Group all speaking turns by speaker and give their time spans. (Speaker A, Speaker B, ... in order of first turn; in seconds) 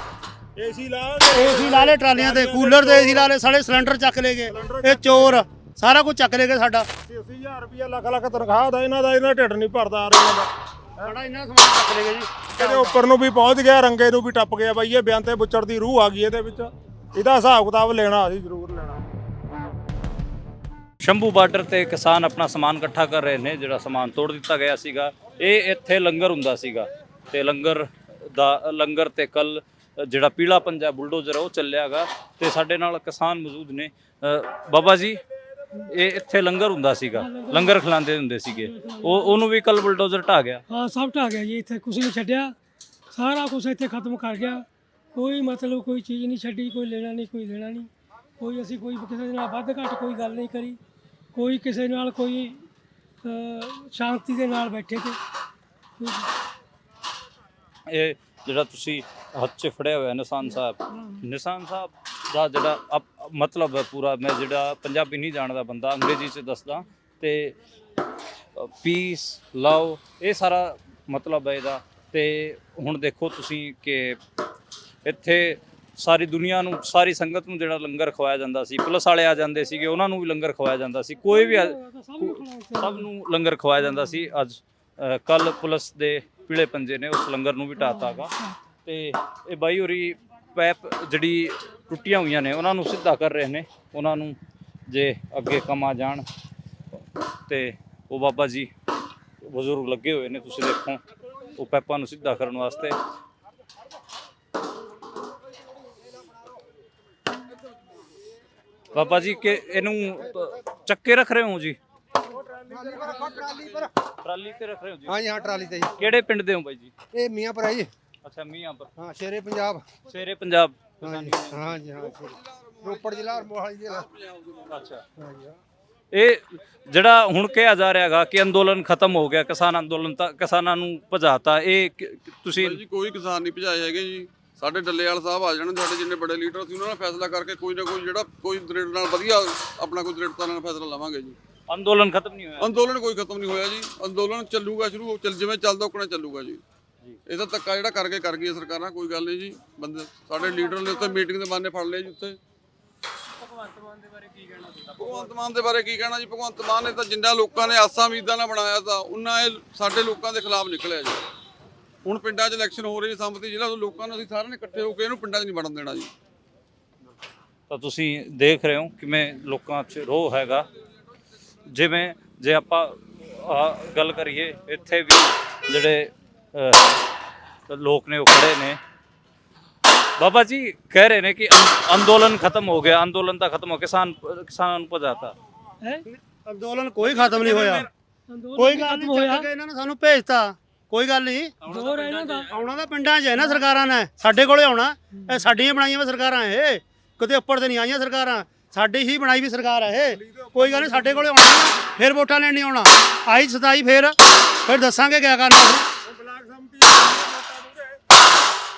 Speaker A: 0.6-3.3, 4.5-5.4, 7.0-11.1, 12.6-19.0, 112.2-113.5, 200.0-201.3, 206.0-208.0
Speaker B: 1.3-6.9, 11.0-13.0, 186.1-187.9, 188.6-191.5, 192.5-205.8
Speaker C: 21.0-35.2, 35.9-40.6, 57.9-67.5, 68.5-74.2, 75.0-88.3, 88.8-94.3, 94.9-96.2, 97.5-98.7, 99.5-101.0, 101.5-103.0, 108.9-111.8, 114.2-115.4, 116.0-116.9, 118.2-118.9, 120.1-121.9, 124.7-125.0, 126.1-132.8, 141.7-142.7, 167.7-170.7, 171.7-177.0, 177.7-178.8, 180.2-185.3
Speaker D: 37.1-37.8, 38.5-39.4, 40.7-42.5, 43.1-50.8, 51.3-52.6, 53.2-55.2, 56.0-56.3, 81.2-83.1, 83.9-84.2, 87.7-88.5, 188.3-189.5, 191.6-192.5, 195.1-195.4
Speaker E: 112.7-113.9, 115.0-116.1, 117.1-117.9, 119.0-119.9, 121.0-124.0, 125.2-125.6
Speaker F: 121.8-124.8, 132.6-141.4, 142.6-146.6, 147.2-152.4, 154.4-161.2, 162.0-166.1, 191.6-192.3